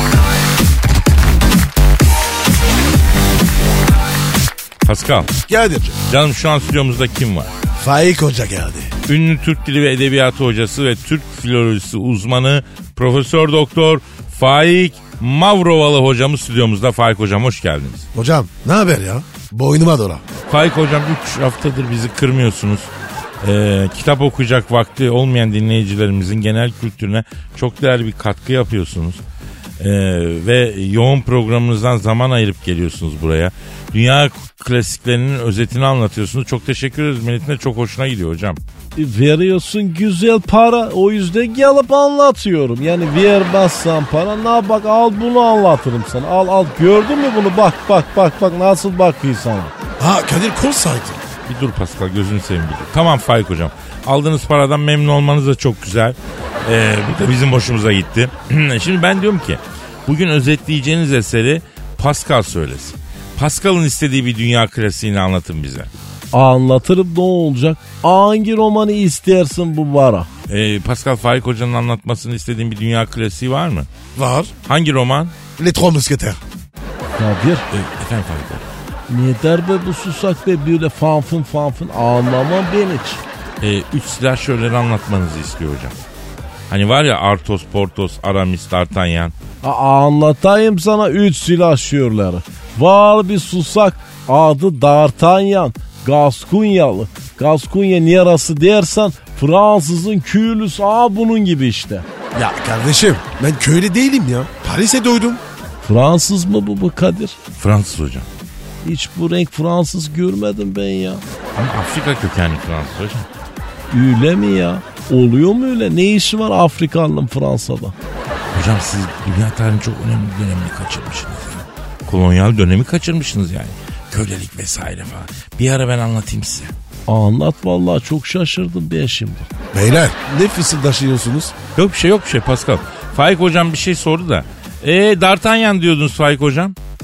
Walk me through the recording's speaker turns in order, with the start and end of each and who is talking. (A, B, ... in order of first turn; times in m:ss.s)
0:04.8-0:05.3 A
0:05.5-0:06.0 B
0:06.1-0:07.5 A
0:07.8-0:08.9 B
0:09.1-0:18.1 A
0:18.1-0:20.2 B
0:20.5-0:22.9 A
0:23.4-0:29.2 A
0:29.8-0:38.6 A
0:39.0-0:49.7 C
0:50.0-0:51.2 B
0:51.5-1:05.9 A
1:06.3-1:10.3 C
1:10.5-1:13.9 A
1:14.2-1:14.5 B
1:14.6-1:15.3 A
1:15.6-1:16.4 B
1:17.2-1:17.6 C
1:17.7-1:18.6 A
1:19.1-1:23.2 C
1:23.6-1:25.9 A
1:26.7-1:29.3 A
1:29.6-1:42.0 C
1:42.3-1:45.4 B
1:45.8-1:47.4 C
1:47.6-1:48.3 A
1:48.8-1:51.2 C
1:51.6-1:53.3 A
1:53.9-1:58.0 C
1:58.5-2:06.7 A
2:07.1-2:09.5 C
2:09.7-2:11.6 B
2:11.8-2:16.8 A